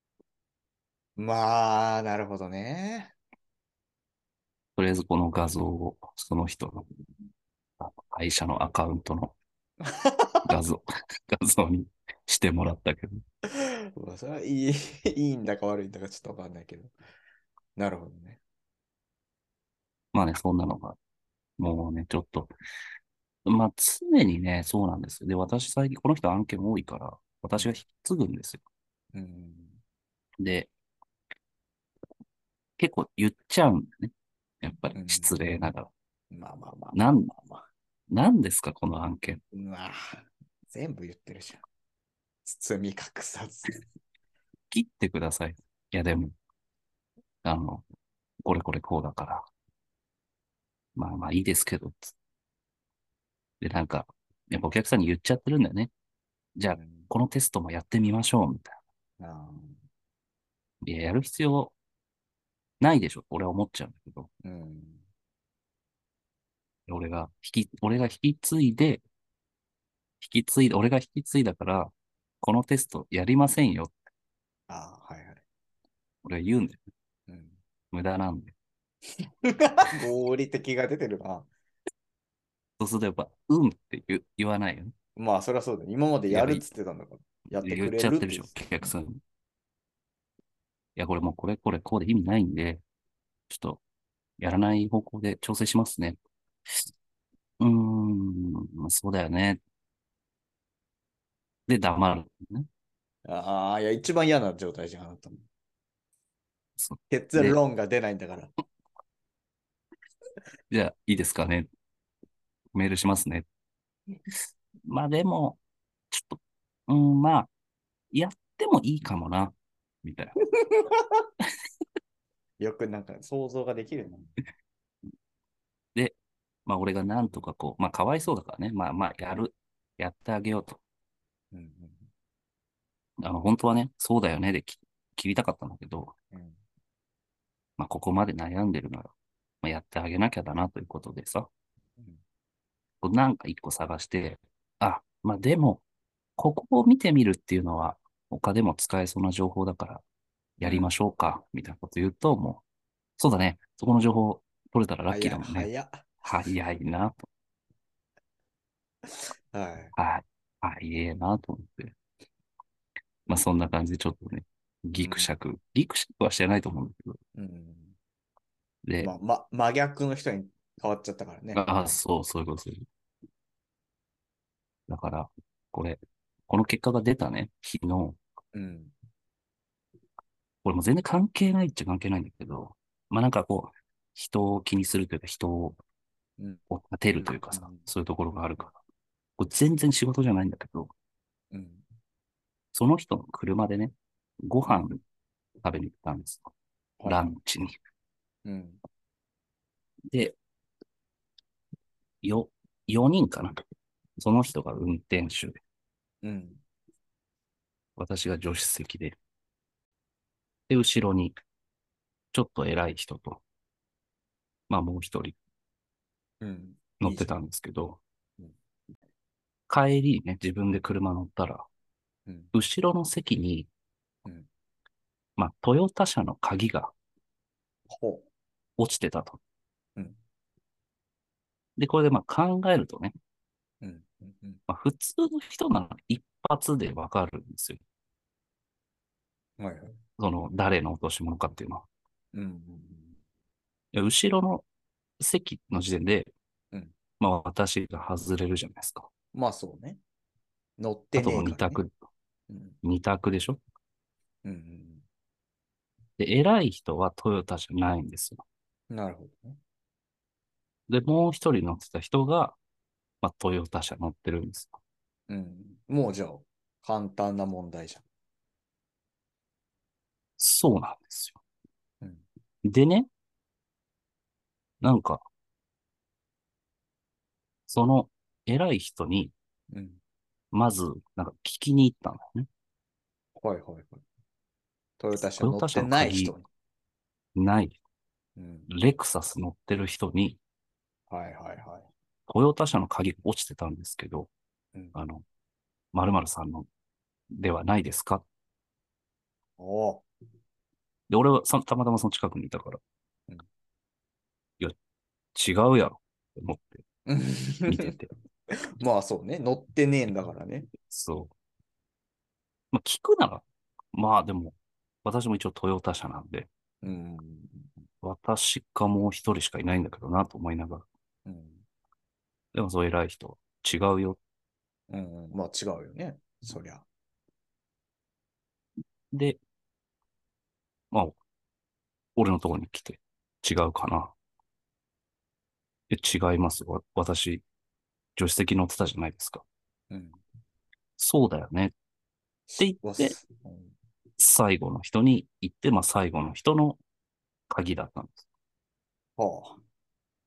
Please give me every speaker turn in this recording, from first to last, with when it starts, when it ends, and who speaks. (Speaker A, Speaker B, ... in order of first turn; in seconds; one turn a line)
Speaker A: 1.2-3.1
Speaker B: 4.8-6.8
Speaker B: 7.8-9.3
Speaker A: 9.8-10.5
Speaker B: 10.4-13.2
Speaker A: 13.5-16.9
Speaker A: 17.8-18.4
Speaker B: 20.1-21.0
Speaker B: 21.6-22.5
Speaker B: 23.4-28.6
Speaker A: 29.1-29.8
Speaker B: 30.4-30.7
Speaker B: 32.8-35.9
Speaker A: 34.9-35.4
Speaker A: 36.3-37.6
Speaker B: 36.9-37.3
Speaker B: 38.1-39.4
Speaker A: 39.5-41.6
Speaker A: 42.4-43.8
Speaker B: 44.7-46.3
Speaker B: 47.4-47.8
Speaker B: 48.4-49.5
Speaker B: 51.0-52.1
Speaker B: 53.6-55.9
Speaker B: 56.5-58.8
Speaker A: 56.8-57.1
Speaker A: 59.2-59.8
Speaker B: 60.8-61.7
Speaker B: 62.8-64.3
Speaker A: 64.4-65.0
Speaker B: 66.9-69.0
Speaker B: 70.2-73.9
Speaker A: 74.7-75.4
Speaker B: 76.2-76.8
Speaker A: 77.3-77.6
Speaker B: 77.9-78.5
Speaker A: 79.4-81.5
Speaker B: 82.8-84.9
Speaker A: 85.2-88.5
Speaker B: 86.3-86.6
Speaker B: 87.6-89.2
Speaker B: 91.0-92.8
Speaker B: 93.5-93.8
Speaker B: 94.4-96.2
Speaker B: 97.6-99.6
Speaker B: 101.7-102.7
Speaker A: 103.2-105.4
Speaker B: 106.8-107.6
Speaker A: 107.1-108.5
Speaker B: 110.7-111.7
Speaker B: 112.7-113.5
Speaker B: 114.9-115.6
Speaker B: 116.1-117.5
Speaker B: 118.1-120.4
Speaker A: 120.6-121.0
Speaker A: 122.6-124.3
Speaker B: 125.9-130.8
Speaker A: 131.5-132.1
Speaker B: 133.2-136.1
Speaker A: 136.3-136.6
Speaker B: 137.8-141.5
Speaker B: 143.0-145.8
Speaker B: 146.4-150.0
Speaker B: 150.6-152.6
Speaker A: 150.6-150.9
Speaker B: 153.2-155.7
Speaker A: 155.1-156.1
Speaker B: 156.2-157.2
Speaker A: 159.1-159.9
Speaker B: 159.9-161.9
Speaker B: 163.3-167.2
Speaker A: 164.9-165.3
Speaker A: 167.3-167.9
Speaker B: 168.8-169.1
Speaker A: 169.0-171.9
Speaker B: 171.5-172.8
Speaker B: 174.9-178.2
Speaker A: 178.5-178.9
Speaker B: 180.6-185.8
Speaker B: 186.7-188.8
Speaker A: 187.5-187.9
Speaker B: 189.4-190.9
Speaker A: 191.5-191.8
Speaker B: 192.7-195.0
Speaker B: 195.6-196.5
Speaker A: 197.0-197.3
Speaker B: 197.1-197.7
Speaker A: 198.4-198.8
Speaker B: 200.1-200.4
Speaker B: 202.2-203.6
Speaker B: 204.2-205.6
Speaker A: 206.2-206.6
Speaker B: 208.0-209.2
Speaker B: 210.7-211.3
Speaker B: 212.3-213.4
Speaker B: 214.7-215.4
Speaker A: 216.4-217.3
Speaker B: 217.0-218.0
Speaker B: 219.7-221.7
Speaker A: 222.3-222.5
Speaker B: 222.5-223.7
Speaker B: 225.4-226.9
Speaker A: 227.9-228.3
Speaker B: 228.8-229.4
Speaker B: 231.8-233.1
Speaker A: 233.8-234.6
Speaker B: 234.7-237.8
Speaker A: 239.6-240.0
Speaker B: 240.2-241.8
Speaker A: 242.3-243.1
Speaker B: 243.9-244.6
Speaker B: 245.2-246.3
Speaker B: 247.2-249.1
Speaker A: 249.3-250.0
Speaker A: 250.8-251.8
Speaker B: 251.2-251.9
Speaker A: 252.5-252.8
Speaker B: 252.8-253.6
Speaker A: 254.4-255.0
Speaker B: 256.2-258.4
Speaker A: 258.9-259.6
Speaker B: 260.9-262.6
Speaker B: 263.2-264.8
Speaker A: 265.3-268.0
Speaker B: 270.4-271.4
Speaker B: 272.6-273.1
Speaker B: 274.8-275.2
Speaker B: 277.7-279.3
Speaker A: 279.7-280.0
Speaker B: 280.5-282.5
Speaker A: 283.4-284.0
Speaker A: 285.0-286.5
Speaker B: 285.4-286.3
Speaker B: 287.3-287.8
Speaker A: 288.4-288.7
Speaker B: 288.7-290.4
Speaker A: 291.1-291.9
Speaker B: 292.3-294.3
Speaker B: 294.9-295.2
Speaker B: 295.9-296.7
Speaker B: 297.3-298.2
Speaker A: 299.6-300.0
Speaker B: 301.1-302.8
Speaker B: 305.3-306.8
Speaker A: 307.1-307.9
Speaker B: 307.6-308.1
Speaker A: 308.5-310.7
Speaker B: 310.9-311.3
Speaker B: 312.7-316.5
Speaker A: 316.8-317.7
Speaker B: 318.0-320.8
Speaker A: 321.2-321.6
Speaker B: 322.5-324.2
Speaker A: 324.9-326.8
Speaker B: 329.1-329.4
Speaker B: 330.9-331.2
Speaker B: 332.1-334.1
Speaker B: 335.9-337.4
Speaker B: 338.1-339.4
Speaker A: 339.9-340.2
Speaker B: 341.0-341.7
Speaker A: 342.5-343.7
Speaker B: 342.6-343.2
Speaker B: 344.2-346.8
Speaker B: 347.5-348.2
Speaker A: 349.2-349.6